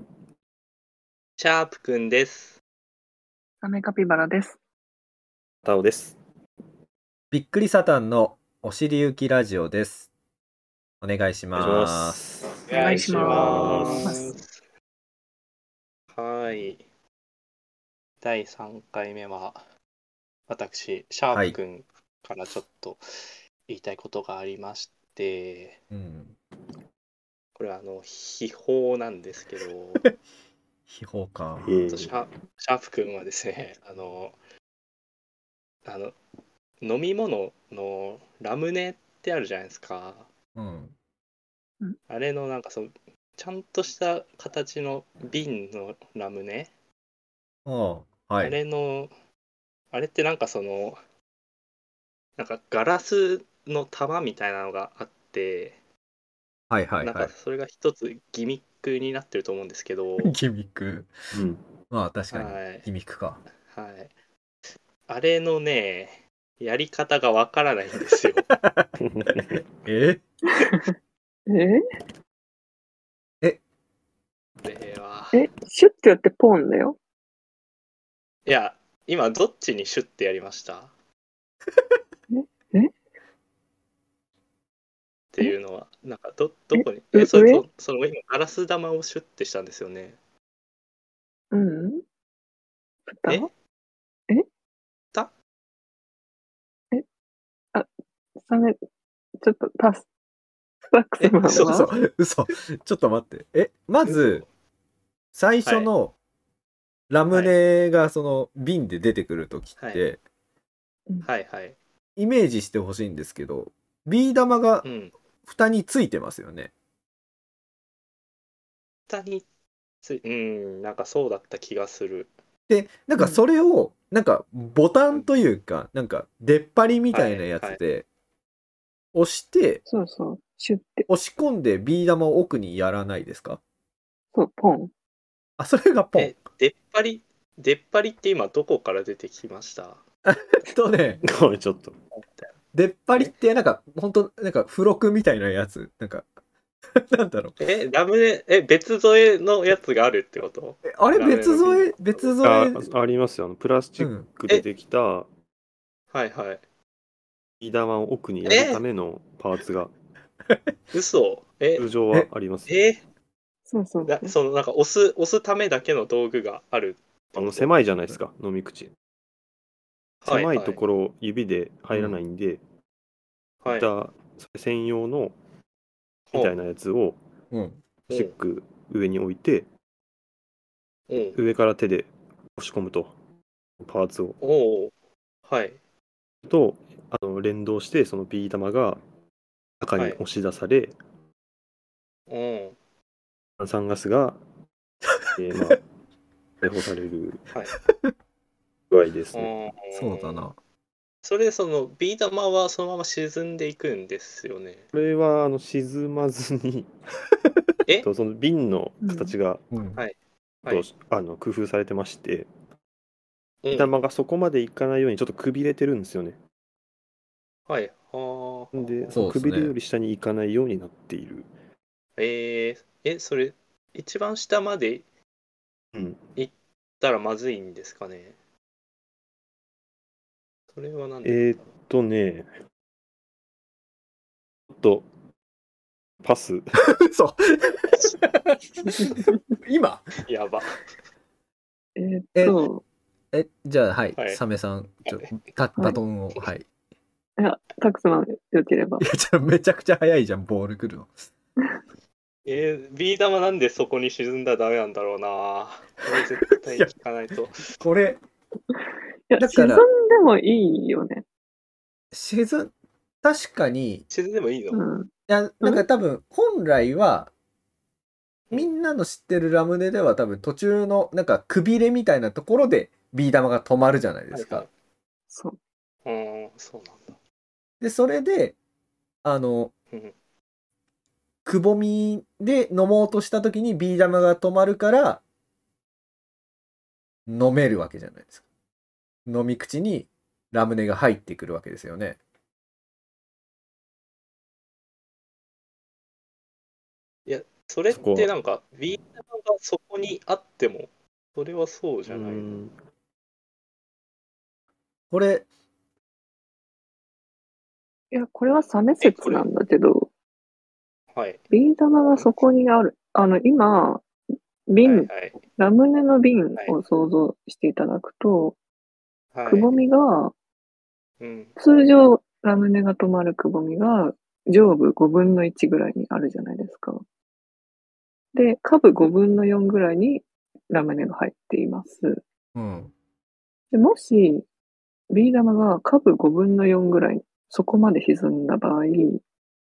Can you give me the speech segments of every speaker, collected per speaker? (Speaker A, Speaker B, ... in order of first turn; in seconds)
Speaker A: 1.4-2.6, 12.7-14.4, 16.1-16.8, 18.2-19.6, 20.5-23.0, 23.7-25.8, 27.6-30.0, 31.8-34.4, 35.9-36.1, 36.8-40.3, 42.1-46.7, 48.4-49.1, 49.9-51.0, 52.4-55.8, 57.0-60.3, 62.3-62.9, 63.7-64.1, 65.1-68.5, 74.6-75.4, 78.5-80.9, 85.3-90.2, 101.2-101.9, 104.0-104.5, 105.6-105.9, 109.8-110.0, 111.2-111.7, 114.8-115.1, 119.1-119.4, 120.0-122.3, 127.1-127.8, 136.2-140.0, 142.1-142.5, 147.6-152.3, 156.1-156.6, 158.4-158.8, 160.9-161.9, 162.7-163.0, 164.1-167.7, 170.2-170.8, 173.6-173.9, 178.1-178.3, 181.1-181.4, 184.4-184.9, 185.5-185.8, 192.3-192.8, 199.3-200.5, 201.2-204.8, 209.9-210.8, 213.6-213.9, 217.7-219.1, 222.2-225.0, 226.3-228.3, 230.7-231.7, 240.2-240.8, 245.0-245.3, 252.4-257.7, 264.1-264.8, 274.3-274.7, 276.0-277.1, 297.2-302.6, 309.0-309.5, 311.1-311.4, 314.8-315.4, 319.3-319.7, 321.2-321.6
Speaker B: 3.6-4.6, 12.7-14.3, 71.5-71.8, 75.3-77.0, 82.3-82.9, 86.7-87.6, 91.5-92.0, 93.1-93.5, 98.4-98.8, 99.4-100.1, 100.9-101.9, 123.2-123.4, 129.8-131.1, 134.3-134.9, 163.7-164.3, 209.0-209.3, 239.1-239.4, 241.9-242.8, 247.4-249.0, 259.3-261.2, 264.7-265.1, 275.3-275.6, 308.1-310.1, 311.5-314.0, 314.7-318.6, 319.5-320.3, 321.6-327.0, 328.3-332.2, 333.7-334.4, 335.1-339.2
Speaker C: 5.6-6.2, 11.5-14.1, 31.6-32.1, 61.3-61.6, 69.0-69.6, 141.2-141.9, 152.4-155.3, 157.6-159.9, 161.8-162.8, 167.3-168.9, 170.2-172.6, 173.7-175.3, 176.3-177.2, 178.1-179.7, 181.3-183.1, 183.8-184.4, 186.4-189.0, 189.8-191.0, 193.6-194.4, 195.4-195.8, 196.6-197.5, 198.9-199.5, 204.9-206.9, 208.0-209.6, 210.7-212.5, 213.7-216.4, 218.7-221.5, 225.9-226.2, 231.2-232.5, 234.7-235.1, 236.2-236.6, 297.9-298.3, 302.1-302.7
Speaker D: 7.3-10.1, 11.0-12.2, 21.3-21.6, 25.9-26.4, 30.9-31.7, 40.5-40.9, 47.6-48.6, 56.7-57.3, 60.2-61.1, 61.9-63.4, 68.5-68.9, 69.8-70.2, 101.4-104.4, 105.3-106.2, 107.1-110.2, 112.2-114.8, 115.5-116.7, 122.7-128.1, 129.1-129.8, 131.1-133.6, 135.6-136.3, 140.2-141.2, 142.7-146.2, 146.9-147.6, 150.8-152.8, 154.0-154.3, 171.9-172.2, 177.5-177.8, 199.9-200.6, 209.7-210.0, 219.1-219.7, 237.0-240.2, 242.3-242.6, 243.3-246.7, 249.0-251.3, 257.8-258.2, 259.4-259.9, 262.1-264.0, 265.3-267.3, 268.5-274.7, 277.8-278.6, 279.2-279.7, 281.4-285.2, 287.3-288.4, 289.2-292.2, 305.1-305.4, 332.5-332.9